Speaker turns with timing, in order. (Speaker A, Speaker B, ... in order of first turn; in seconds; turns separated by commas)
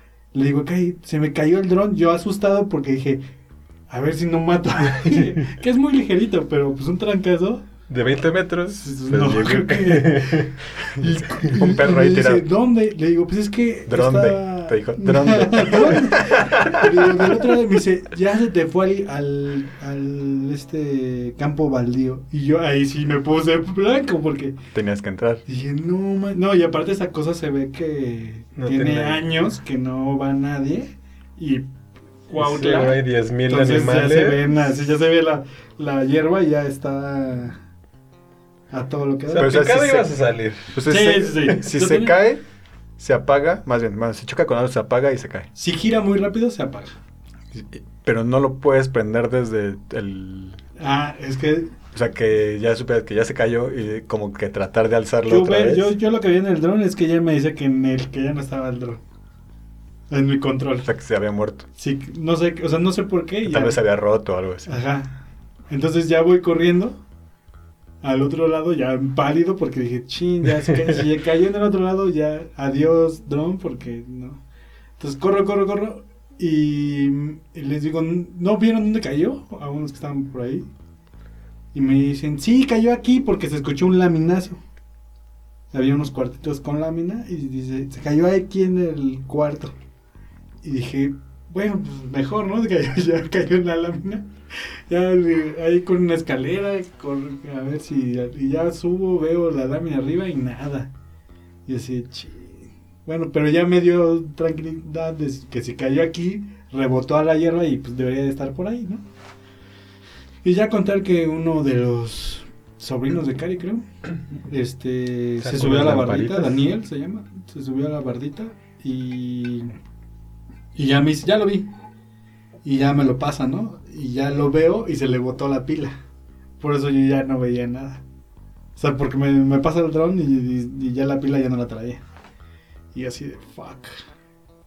Speaker A: 0.3-3.2, Speaker A: 3.9-7.7, Speaker B: 7.9-10.9, Speaker A: 8.8-24.6, Speaker C: 11.0-12.5, Speaker C: 13.9-17.1, Speaker C: 24.7-25.4, Speaker A: 25.5-31.7, Speaker B: 28.6-29.3, Speaker A: 32.3-37.6, Speaker B: 32.4-34.5, Speaker A: 38.7-39.6, Speaker B: 39.3-40.8, Speaker C: 39.4-40.1, Speaker C: 40.7-42.4, Speaker A: 40.9-42.1, Speaker C: 43.0-45.5, Speaker A: 45.5-47.0, Speaker C: 47.5-50.6, Speaker A: 50.8-51.8, Speaker C: 51.9-56.0, Speaker A: 55.3-59.0, Speaker A: 60.1-60.9, Speaker C: 60.8-61.7, Speaker A: 61.8-63.8, Speaker C: 63.5-64.8, Speaker A: 64.7-67.0, Speaker A: 68.0-74.4, Speaker A: 75.0-80.7, Speaker A: 81.7-84.6, Speaker A: 85.7-89.8, Speaker A: 90.6-100.9, Speaker A: 101.7-109.0, Speaker A: 110.4-113.8, Speaker A: 114.5-119.8, Speaker B: 115.4-116.6, Speaker A: 120.8-121.7, Speaker A: 122.6-126.0, Speaker A: 126.6-128.0, Speaker A: 128.8-132.0, Speaker A: 132.9-134.0